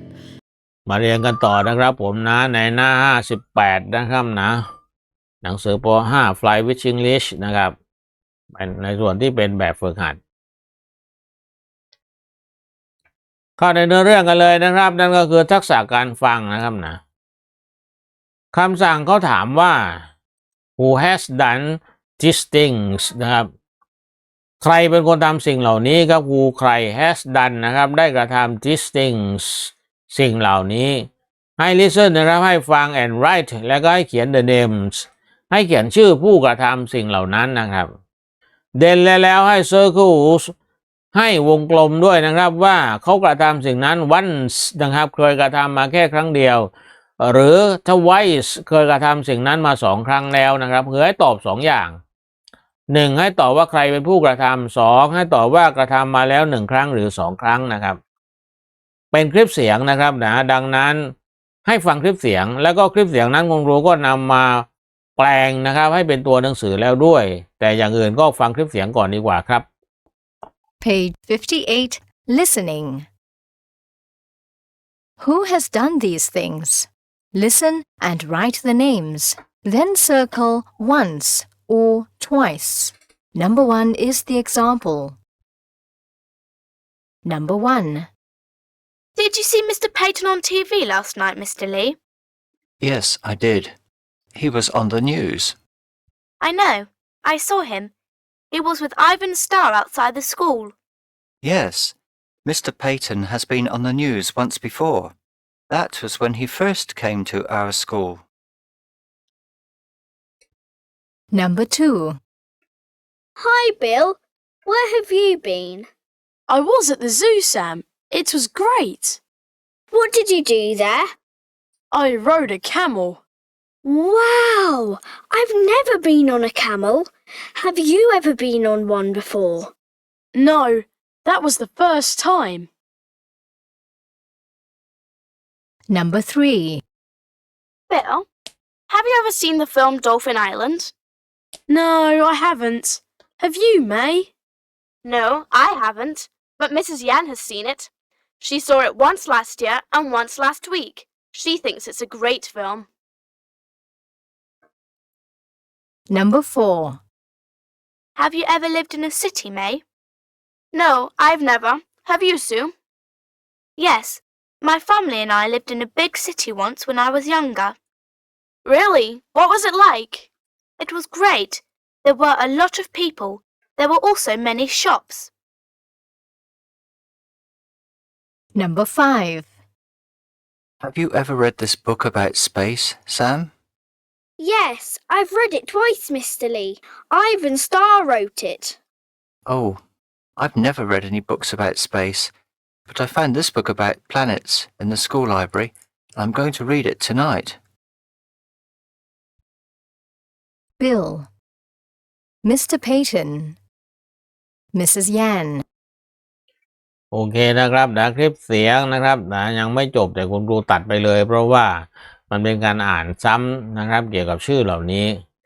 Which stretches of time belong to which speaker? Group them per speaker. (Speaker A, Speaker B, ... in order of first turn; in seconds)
Speaker A: 0.8-4.6, 5.4-7.7, 8.5-10.2, 13.6-17.0, 18.5-20.0, 20.8-23.5, 24.6-37.9, 38.8-40.5, 41.1-52.0, 52.9-58.0, 59.1-61.1, 61.6-69.7, 207.1-215.2
Speaker B: 70.8-73.1, 75.2-85.2, 87.2-88.1, 111.3-112.2, 135.9-136.8, 156.1-157.0, 178.5-179.5, 200.8-201.3, 202.4-203.6, 204.7-205.6
Speaker C: 89.2-92.0, 96.4-97.9, 98.5-100.7, 137.9-138.3, 138.9-140.9, 145.0-152.9, 158.2-159.8, 160.7-162.7, 163.8-167.8, 168.6-175.3
Speaker D: 92.8-93.7, 94.3-95.6, 101.4-105.1, 105.7-108.2, 180.8-183.5, 189.4-189.8, 190.4-192.3, 192.9-197.6
Speaker E: 113.4-115.9, 119.9-121.1, 123.8-129.7, 184.4-188.8
Speaker F: 116.5-119.2, 121.9-123.2, 130.3-132.7, 141.7-144.3